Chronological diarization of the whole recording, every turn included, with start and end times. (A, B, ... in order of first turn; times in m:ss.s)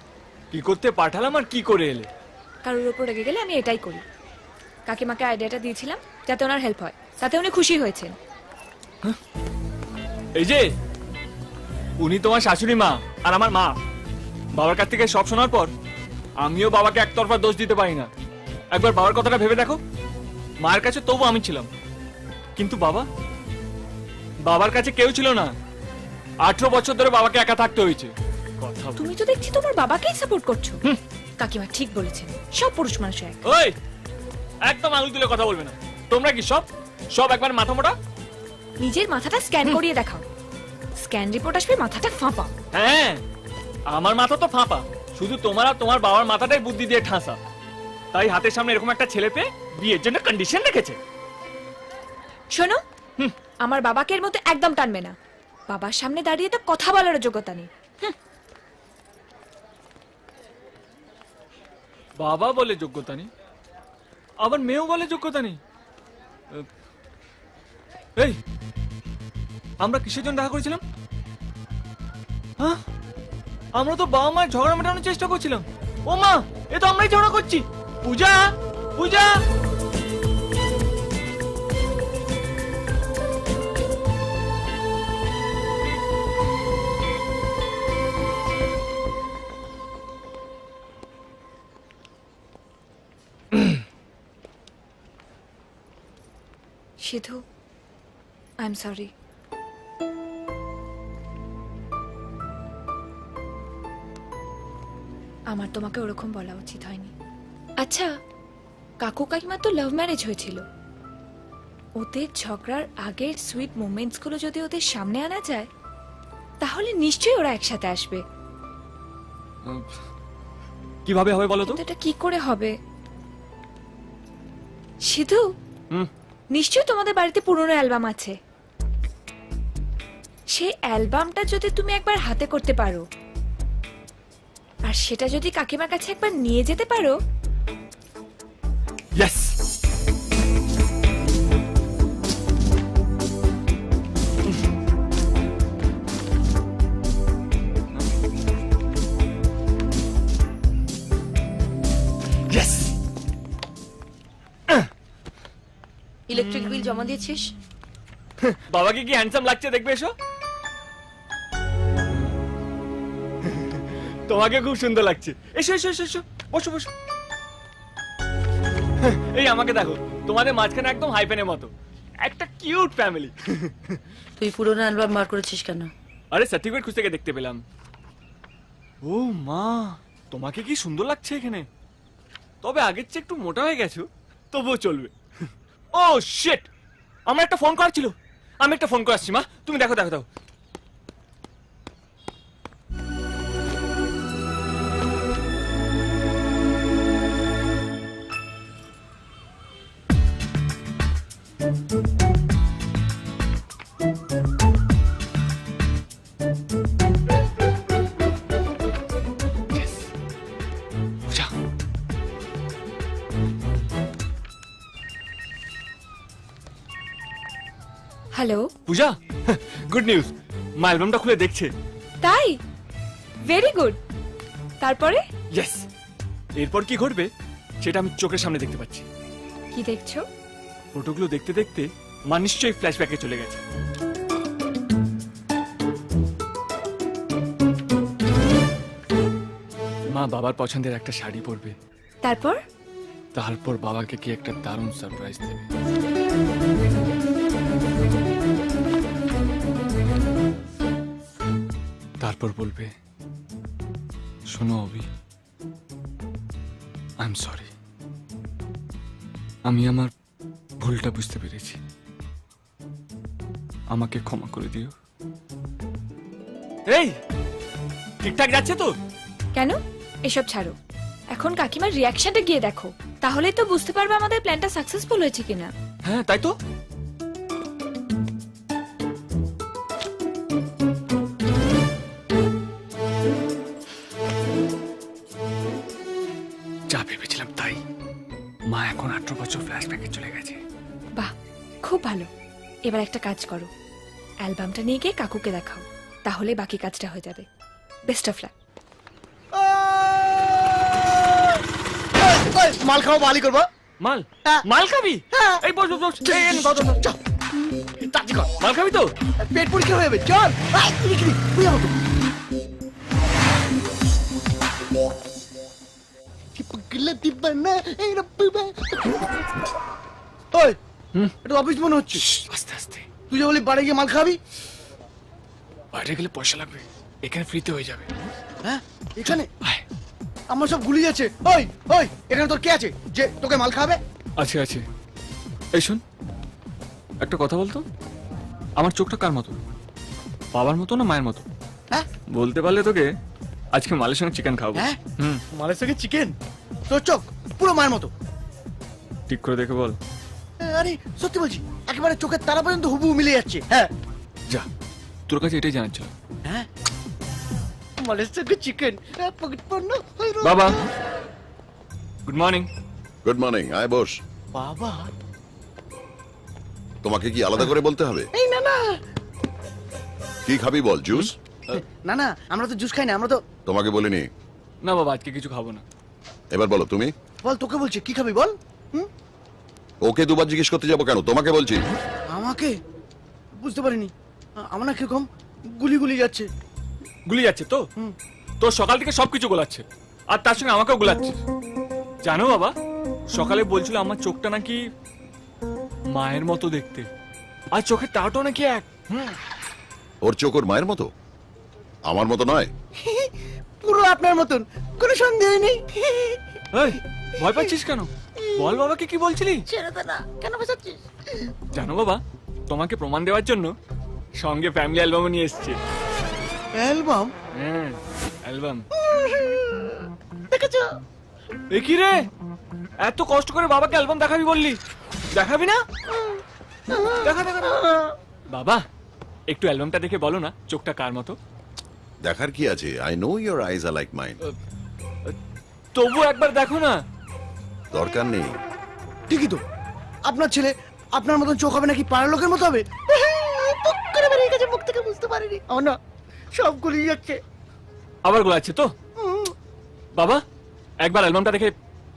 0:00.5-0:02.1 A
0:02.6-0:04.0 B
0:04.9-0:08.2 B
0:10.4-0:10.7 A
0:12.0-0:13.7 A
0:14.6-0:15.7 A
0:16.4-0:18.1 A
0:18.7-0:19.8 A
0:20.6-0:21.7 A
0:22.6-0:23.0 A
0:24.5-0:25.5 A
0:26.4-0:29.0 A
0:29.0-0:30.8 B
0:31.4-0:33.4 B
0:33.4-0:33.7 A
0:34.6-0:37.9 A
0:38.8-0:40.2 B
0:41.0-0:42.5 B
0:42.7-0:43.2 A
0:43.9-0:47.4 A
0:48.1-0:51.0 A
0:52.5-0:52.8 B
0:53.6-0:55.1 B
0:55.7-0:58.1 B
1:02.2-1:03.3 A
1:04.4-1:05.6 A
1:09.8-1:10.8 A
1:13.8-1:19.4 A
1:37.0-1:37.4 B
1:38.6-1:39.1 B
1:45.5-1:47.1 B
1:47.8-1:48.1 B
1:49.0-1:50.6 B
1:52.0-1:55.7 B
1:56.6-1:58.2 B
1:59.6-1:59.9 A
2:01.0-2:01.8 A
2:01.7-2:02.7 B
2:05.1-2:05.5 B
2:06.5-2:08.4 B
2:10.5-2:13.0 B
2:14.8-2:17.1 B
2:19.2-2:19.5 A
2:32.5-2:32.9 A
2:36.3-2:37.4 C
2:38.4-2:40.1 A
2:43.4-2:46.9 A
2:49.0-2:51.7 A
2:52.2-2:54.0 A
2:54.4-2:55.9 C
2:56.3-2:57.6 A
2:59.0-3:01.7 A
3:02.6-3:05.1 A
3:05.9-3:06.7 A
3:07.3-3:10.2 A
3:29.7-3:30.1 A
3:31.3-3:31.5 A
3:38.3-3:38.7 B
3:38.8-3:41.7 A
3:42.2-3:42.6 B
3:43.4-3:44.0 B
3:44.8-3:45.2 B
3:45.5-3:45.8 A
3:46.6-3:47.3 A
3:47.8-3:49.1 A
3:49.7-3:50.2 B
3:50.9-3:53.6 A
4:00.1-4:01.7 A
4:02.2-4:02.6 B
4:03.3-4:05.7 A
4:12.2-4:12.9 A
4:14.5-4:15.1 A
4:17.2-4:17.7 A
4:19.6-4:20.1 A
4:20.8-4:21.8 A
4:23.9-4:24.9 A
4:26.9-4:27.2 A
4:28.2-4:29.0 A
4:29.5-4:30.7 B
4:31.3-4:35.7 B
4:36.0-4:36.6 A
4:46.9-4:47.8 A
4:48.7-4:50.6 A
4:51.8-4:52.3 B
4:52.8-4:53.7 B
4:54.4-4:57.4 B
4:58.1-4:58.5 B
4:59.5-5:01.6 D
5:02.2-5:03.7 D
5:04.0-5:07.0 A
5:05.3-5:05.6 D
5:06.2-5:07.2 D
5:08.0-5:08.4 D
5:08.2-5:09.1 A
5:09.4-5:12.0 D
5:16.6-5:19.3 D
5:20.5-5:20.8 D
5:21.4-5:22.2 D
5:22.2-5:23.1 A
5:23.3-5:24.4 D
5:25.9-5:28.1 A
5:28.6-5:29.5 D
5:30.5-5:34.0 D
5:34.4-5:34.8 A
5:35.7-5:36.0 A
5:37.2-5:37.8 A
5:38.8-5:39.6 A
5:40.5-5:41.4 A
5:42.3-5:43.1 A
5:43.7-5:45.4 A
5:45.5-5:46.4 D
5:46.9-5:48.1 D
5:49.3-5:50.0 A
5:50.6-5:53.9 D
5:55.3-5:56.1 A
5:58.0-6:00.8 D
6:00.4-6:00.8 A
6:02.2-6:02.7 A
6:03.2-6:04.1 E
6:04.5-6:05.1 D
6:07.0-6:08.3 E
6:08.3-6:09.0 D
6:10.4-6:11.3 E
6:11.8-6:13.4 D
6:13.6-6:14.3 E
6:14.8-6:15.8 A
6:16.5-6:17.1 E
6:17.4-6:19.1 D
6:20.0-6:21.8 E
6:22.3-6:22.8 D
6:23.6-6:26.5 D
6:27.3-6:27.8 A
6:28.6-6:31.4 A
6:32.2-6:32.7 A
6:33.3-6:34.8 A
6:36.1-6:37.1 A
6:37.7-6:39.4 A
6:40.2-6:41.1 E
6:42.1-6:42.7 E
6:43.0-6:46.6 D
6:46.7-6:49.6 A
6:48.4-6:48.8 D
6:49.7-6:51.5 D
6:51.7-6:53.7 A
6:54.4-6:55.8 A
6:56.7-6:57.3 D
6:57.5-6:58.9 A
6:58.9-7:01.0 D
7:01.7-7:02.2 A
7:03.0-7:04.8 A
7:05.3-7:05.8 A
7:06.1-7:08.1 D
7:07.2-7:07.8 A
7:08.5-7:08.8 A
7:09.5-7:11.4 A
7:12.2-7:14.4 E
7:15.9-7:17.0 A
7:17.9-7:18.6 E
7:19.3-7:19.6 D
7:20.2-7:26.0 D
7:26.5-7:27.4 D
7:28.2-7:28.9 A
7:29.2-7:29.5 D
7:30.2-7:30.4 A
7:31.0-7:31.7 A